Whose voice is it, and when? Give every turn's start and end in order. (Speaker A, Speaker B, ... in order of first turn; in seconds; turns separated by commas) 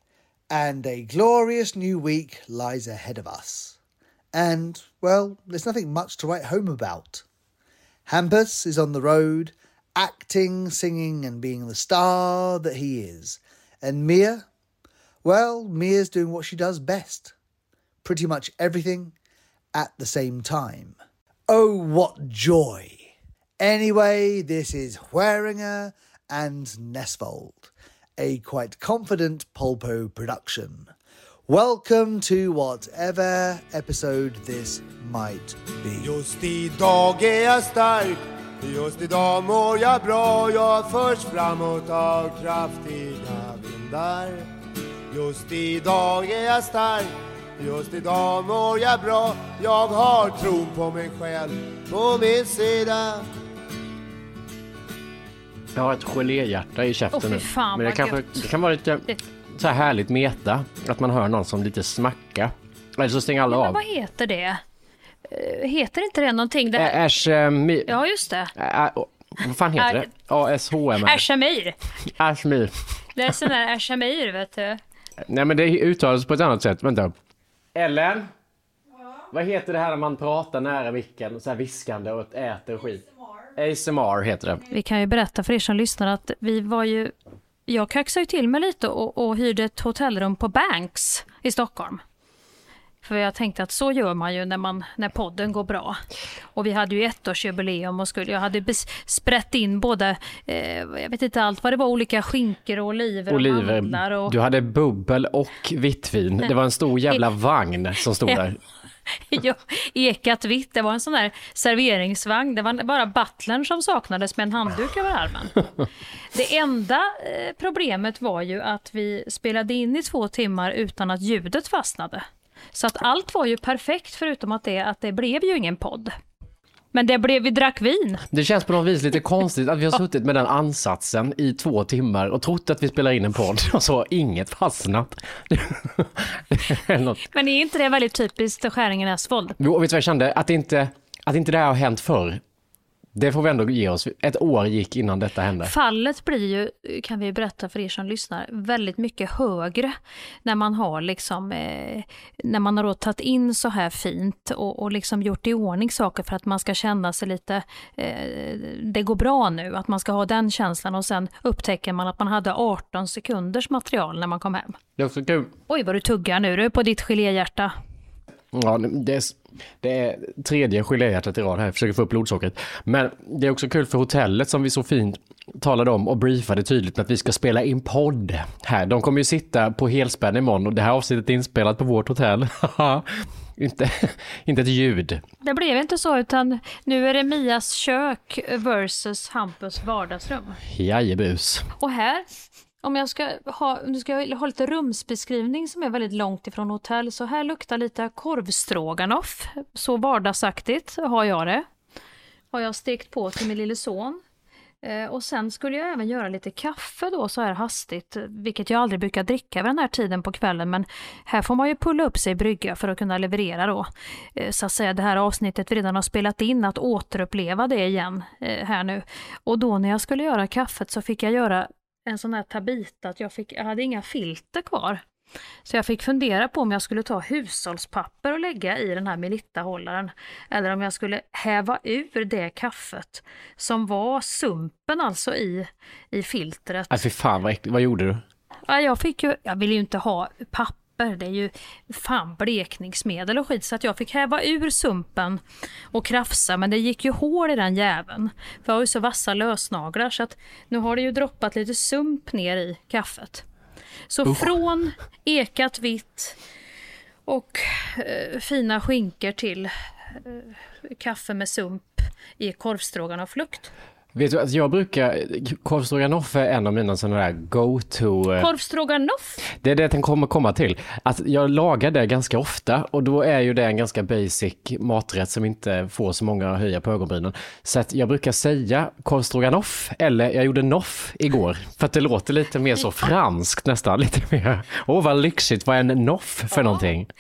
Speaker A: 0.5-3.8, Speaker A: 4.3-7.2, Speaker A: 8.1-14.5, Speaker A: 15.2-17.3, Speaker A: 18.0-19.1, Speaker A: 19.7-21.0, Speaker A: 21.5-30.9, Speaker A: 31.5-36.1, Speaker B: 36.0-44.5, Speaker B: 45.1-53.2, Speaker C: 55.8-63.8, Speaker D: 57.1-58.5, Speaker D: 63.5-64.6, Speaker D: 65.3-67.0, Speaker C: 66.8-67.9, Speaker D: 67.9-68.5, Speaker C: 68.5-71.2, Speaker D: 69.8-70.1, Speaker D: 71.0-71.8, Speaker C: 72.2-72.8, Speaker D: 73.2-74.8, Speaker C: 75.2-77.1, Speaker C: 77.8-78.3, Speaker C: 79.3-84.7, Speaker D: 84.7-87.1, Speaker D: 87.7-92.0, Speaker D: 93.0-96.0, Speaker D: 96.5-104.3, Speaker C: 103.3-108.6, Speaker D: 109.1-115.6, Speaker D: 116.3-126.1, Speaker D: 126.9-128.2, Speaker C: 128.3-137.2, Speaker D: 137.3-139.6, Speaker C: 139.6-142.4, Speaker C: 143.2-145.7, Speaker D: 145.6-164.8, Speaker C: 165.0-165.5, Speaker D: 165.7-167.7, Speaker C: 168.5-185.2, Speaker D: 185.4-190.6, Speaker C: 190.7-191.7, Speaker D: 191.8-192.2, Speaker D: 192.8-201.7, Speaker D: 202.5-204.2, Speaker D: 204.8-225.0, Speaker D: 225.7-237.0, Speaker C: 236.9-238.2, Speaker D: 238.7-245.4, Speaker D: 245.9-253.4, Speaker D: 254.1-256.4, Speaker C: 254.3-254.5, Speaker D: 257.3-263.7, Speaker C: 264.1-268.5, Speaker D: 268.4-269.4, Speaker C: 269.5-287.1, Speaker D: 286.5-286.9